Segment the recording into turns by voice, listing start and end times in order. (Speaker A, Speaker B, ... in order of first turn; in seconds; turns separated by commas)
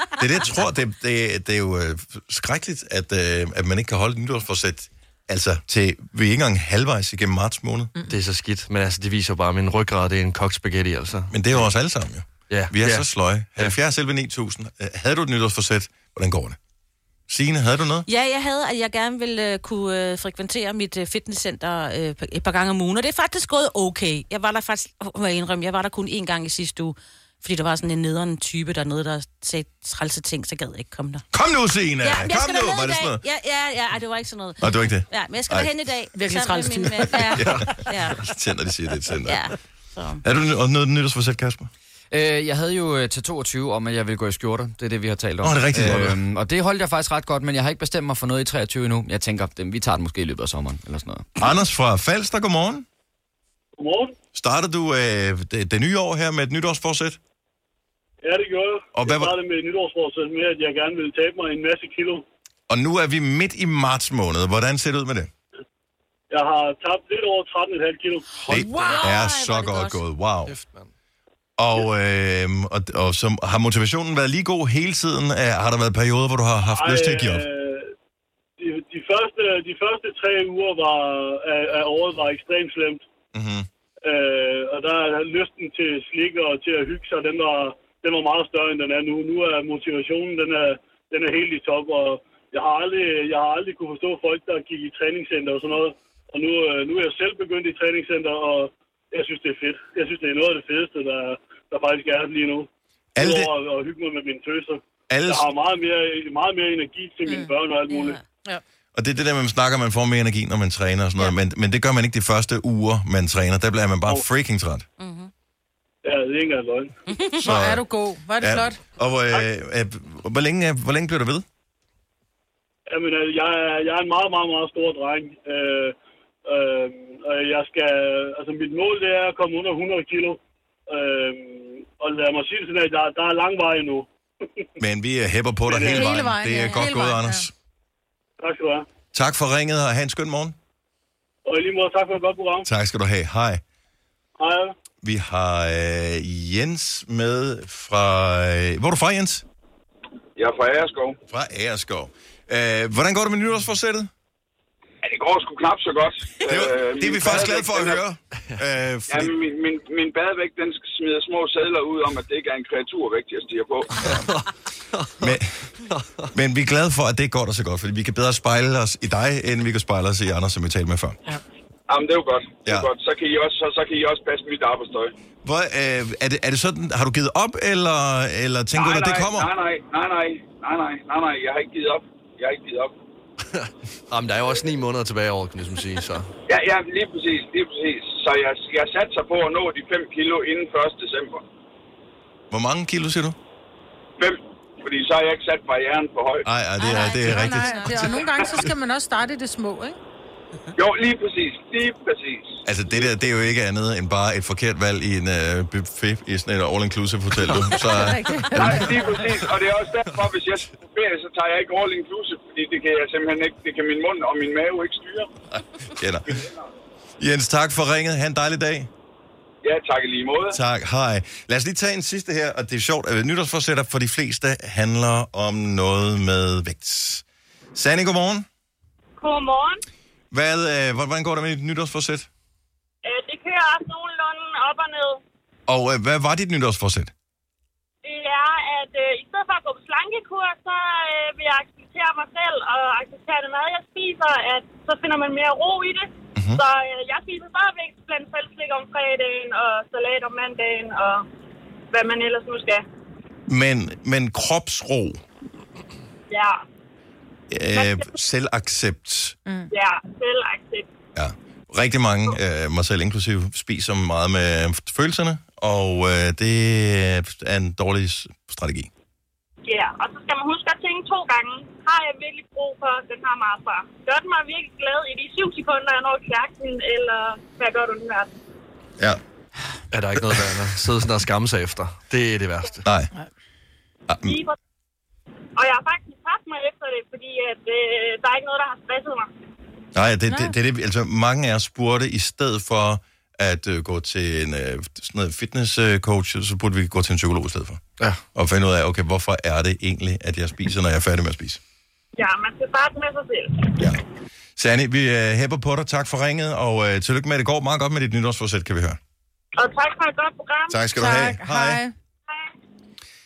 Speaker A: 0.2-7.9, Speaker B: 8.1-11.7, Speaker A: 11.3-16.6, Speaker B: 12.5-13.1, Speaker A: 17.3-18.1, Speaker C: 18.1-31.2, Speaker A: 31.3-33.2, Speaker C: 32.0-38.2, Speaker A: 34.6-35.7, Speaker D: 36.1-37.7, Speaker A: 37.4-37.6, Speaker A: 38.2-39.4, Speaker C: 39.2-40.2, Speaker A: 40.2-41.7, Speaker E: 42.1-51.3, Speaker A: 45.4-46.2, Speaker A: 51.4-52.9, Speaker F: 53.8-54.1, Speaker A: 54.3-57.2, Speaker F: 58.2-62.2, Speaker A: 58.9-59.3, Speaker A: 62.7-65.3, Speaker F: 66.3-68.2, Speaker B: 68.5-69.0, Speaker C: 68.5-70.0, Speaker A: 68.5-70.5, Speaker B: 70.5-70.9, Speaker A: 71.6-77.5, Speaker F: 76.7-77.9, Speaker F: 78.6-83.0, Speaker A: 83.3-83.7, Speaker F: 84.0-102.7, Speaker A: 103.2-103.5, Speaker F: 103.2-108.2, Speaker A: 105.1-105.5, Speaker C: 107.3-108.2, Speaker A: 108.9-114.8, Speaker C: 115.0-115.3, Speaker F: 116.0-116.9, Speaker C: 117.1-117.4, Speaker A: 117.4-117.8, Speaker D: 117.4-118.8, Speaker A: 118.4-121.4, Speaker F: 122.9-134.1, Speaker A: 134.8-137.5, Speaker F: 135.7-136.1, Speaker D: 135.9-137.5, Speaker F: 138.4-138.8, Speaker A: 139.1-140.6, Speaker F: 141.4-142.7, Speaker A: 142.6-143.6, Speaker F: 144.4-144.7, Speaker A: 145.0-149.4, Speaker G: 150.3-151.2, Speaker A: 151.3-154.1, Speaker G: 155.0-158.0, Speaker A: 156.4-159.3, Speaker G: 159.1-164.2, Speaker B: 164.3-166.3, Speaker A: 165.2-165.7, Speaker A: 166.3-171.2, Speaker G: 171.9-175.1, Speaker A: 175.4-179.5, Speaker G: 178.7-182.9, Speaker B: 183.5-186.3, Speaker G: 186.5-191.4, Speaker A: 192.5-193.4, Speaker G: 194.2-196.4, Speaker A: 196.4-198.2, Speaker C: 196.8-198.4, Speaker D: 197.1-200.0, Speaker G: 200.8-203.1, Speaker A: 202.7-209.1, Speaker B: 207.5-207.8, Speaker D: 207.8-208.9, Speaker G: 208.6-215.3, Speaker A: 215.9-216.4, Speaker G: 216.3-216.6, Speaker A: 217.2-218.9, Speaker G: 219.6-220.6, Speaker A: 220.5-228.4, Speaker H: 229.2-229.8, Speaker A: 230.3-232.3, Speaker H: 233.0-235.2, Speaker A: 235.7-237.1, Speaker H: 238.0-251.2, Speaker A: 246.3-246.6, Speaker H: 251.9-252.8, Speaker A: 253.5-255.2, Speaker H: 256.3-256.6, Speaker A: 257.5-259.4, Speaker H: 257.7-258.1, Speaker H: 259.7-260.9, Speaker A: 261.1-268.9, Speaker H: 269.6-278.3, Speaker B: 279.9-282.8, Speaker A: 280.2-280.5, Speaker A: 282.8-283.1, Speaker A: 284.1-284.4, Speaker H: 284.2-284.6, Speaker H: 285.6-289.3, Speaker A: 289.9-297.8, Speaker A: 298.3-301.6, Speaker H: 302.1-303.7, Speaker A: 303.8-304.0, Speaker A: 304.6-309.0, Speaker H: 309.6-310.8, Speaker A: 310.7-311.8, Speaker D: 310.9-311.9